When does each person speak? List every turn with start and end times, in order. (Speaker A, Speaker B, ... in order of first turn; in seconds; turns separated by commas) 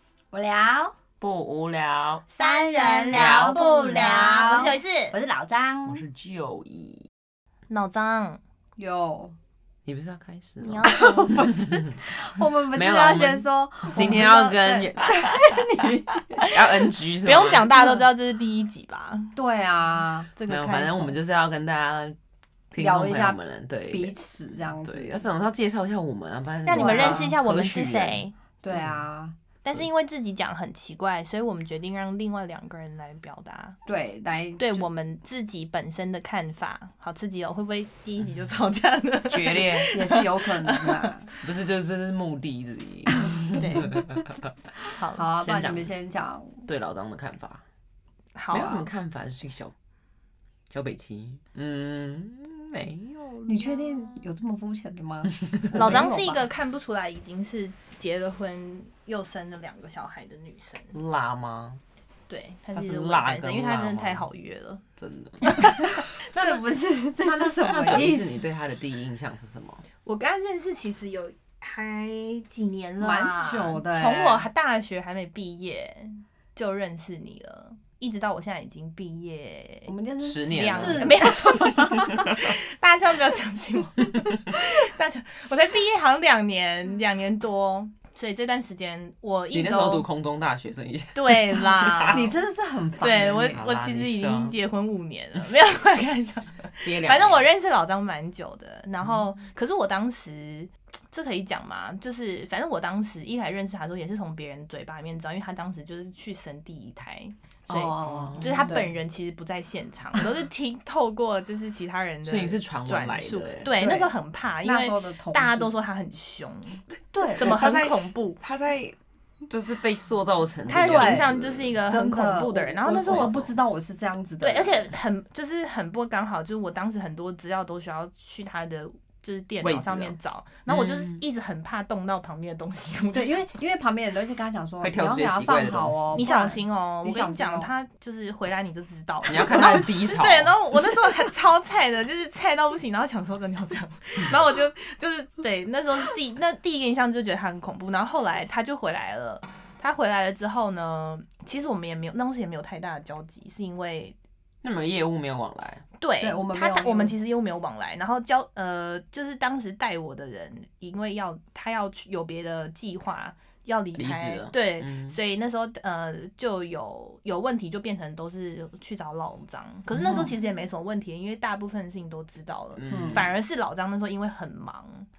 Speaker A: 0.3-0.9, Speaker B: 1.2-2.2, Speaker C: 2.3-5.1, Speaker A: 2.4-6.0, Speaker B: 3.1-3.5, Speaker B: 5.8-7.1, Speaker C: 7.7-8.4, Speaker A: 8.8-9.3, Speaker B: 9.8-11.9, Speaker C: 10.6-11.5, Speaker A: 10.9-16.2, Speaker B: 12.7-15.4, Speaker B: 16.5-17.7, Speaker C: 17.2-19.3, Speaker A: 19.3-20.3, Speaker C: 20.4-21.1, Speaker B: 20.5-22.2, Speaker B: 22.7-24.1, Speaker A: 22.8-23.4, Speaker A: 23.9-25.2, Speaker B: 24.8-28.2, Speaker C: 26.6-28.3, Speaker A: 26.7-27.3, Speaker A: 28.6-29.3, Speaker B: 28.7-29.0, Speaker C: 29.6-33.8, Speaker A: 33.9-34.8, Speaker C: 34.6-41.1, Speaker B: 39.3-39.9, Speaker A: 39.9-41.2, Speaker B: 41.4-44.2, Speaker C: 43.5-44.1, Speaker C: 45.0-45.2, Speaker A: 45.1-46.6, Speaker B: 45.4-45.9, Speaker B: 46.6-47.6, Speaker C: 48.4-48.8, Speaker B: 48.5-49.7, Speaker B: 50.7-53.6, Speaker A: 53.5-56.4, Speaker C: 55.7-60.9, Speaker B: 60.9-61.8, Speaker C: 62.3-64.8, Speaker B: 62.7-64.3, Speaker B: 65.0-65.5, Speaker A: 65.8-68.4, Speaker B: 66.3-66.6, Speaker B: 67.2-69.8, Speaker C: 70.0-90.0, Speaker A: 73.0-74.4, Speaker A: 79.9-82.0, Speaker B: 80.2-82.4, Speaker B: 89.5-92.3, Speaker C: 91.1-92.3, Speaker A: 92.1-93.6, Speaker C: 93.0-116.8, Speaker B: 93.0-94.5, Speaker B: 96.8-97.4, Speaker A: 107.7-108.9, Speaker B: 112.2-113.7, Speaker A: 113.8-114.1, Speaker A: 114.6-115.7, Speaker A: 117.1-117.5, Speaker C: 117.3-118.4, Speaker B: 117.4-119.0, Speaker B: 119.5-121.8, Speaker C: 120.7-123.3, Speaker A: 120.8-121.3, Speaker A: 121.9-124.8, Speaker B: 123.0-123.5, Speaker C: 124.4-133.5, Speaker B: 129.6-130.1, Speaker B: 130.7-131.2, Speaker A: 133.1-137.7, Speaker B: 134.8-136.3, Speaker C: 136.2-154.2, Speaker B: 139.2-140.5, Speaker B: 154.6-155.8, Speaker C: 156.0-175.1, Speaker A: 156.2-157.1, Speaker B: 164.0-165.2, Speaker B: 172.8-173.3, Speaker A: 172.9-173.2